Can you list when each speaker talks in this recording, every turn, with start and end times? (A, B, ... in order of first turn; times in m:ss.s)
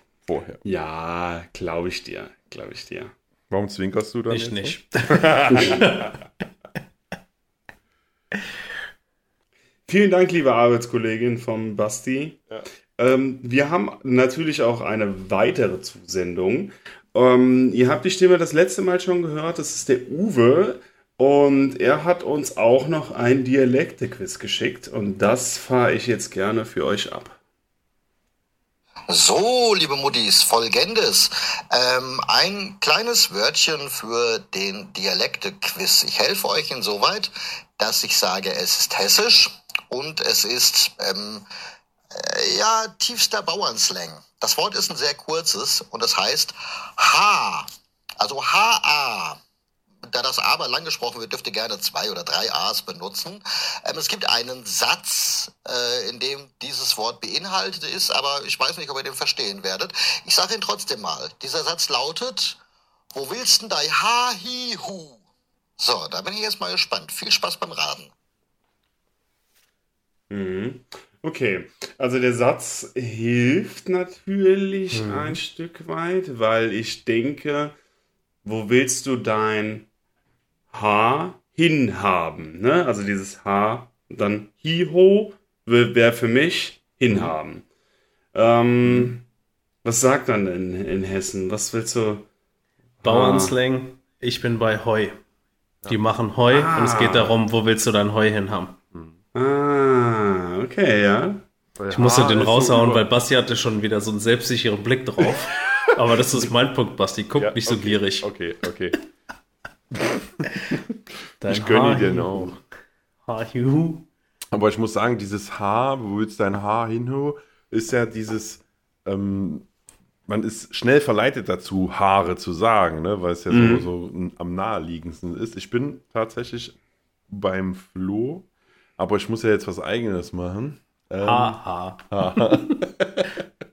0:00.3-0:00.6 A
0:00.6-0:03.1 B
0:03.5-0:06.0 A
0:04.3-0:06.1 C
0:09.9-0:12.4 B
0:13.0-0:27.4 B
0:29.1-0:41.5 D
0:42.1-0:49.4 D
0:50.1-1:02.6 D
1:03.1-1:05.2 D
1:05.8-1:08.1 D
1:10.3-1:17.7 B
1:14.9-1:15.4 C
1:18.4-1:19.9 B
1:20.7-1:27.6 B
1:28.3-1:29.2 B
1:28.8-1:29.1 A
1:29.8-1:32.2 B
1:33.0-1:33.6 B
1:33.0-1:35.2 C
1:35.9-1:38.8 C
1:36.5-1:37.3 B
1:39.4-1:41.4 B
1:41.8-1:43.1 A
1:41.9-1:48.3 C
1:47.4-1:49.0 A
1:50.0-1:50.8 A
1:51.4-1:52.6 C
1:51.4-1:52.6 A
1:53.3-1:54.1 C
1:54.5-1:59.7 A
2:00.3-2:06.8 A
2:03.5-2:03.9 B
2:07.3-2:08.5 A
2:09.0-2:13.4 A
2:11.2-2:12.8 C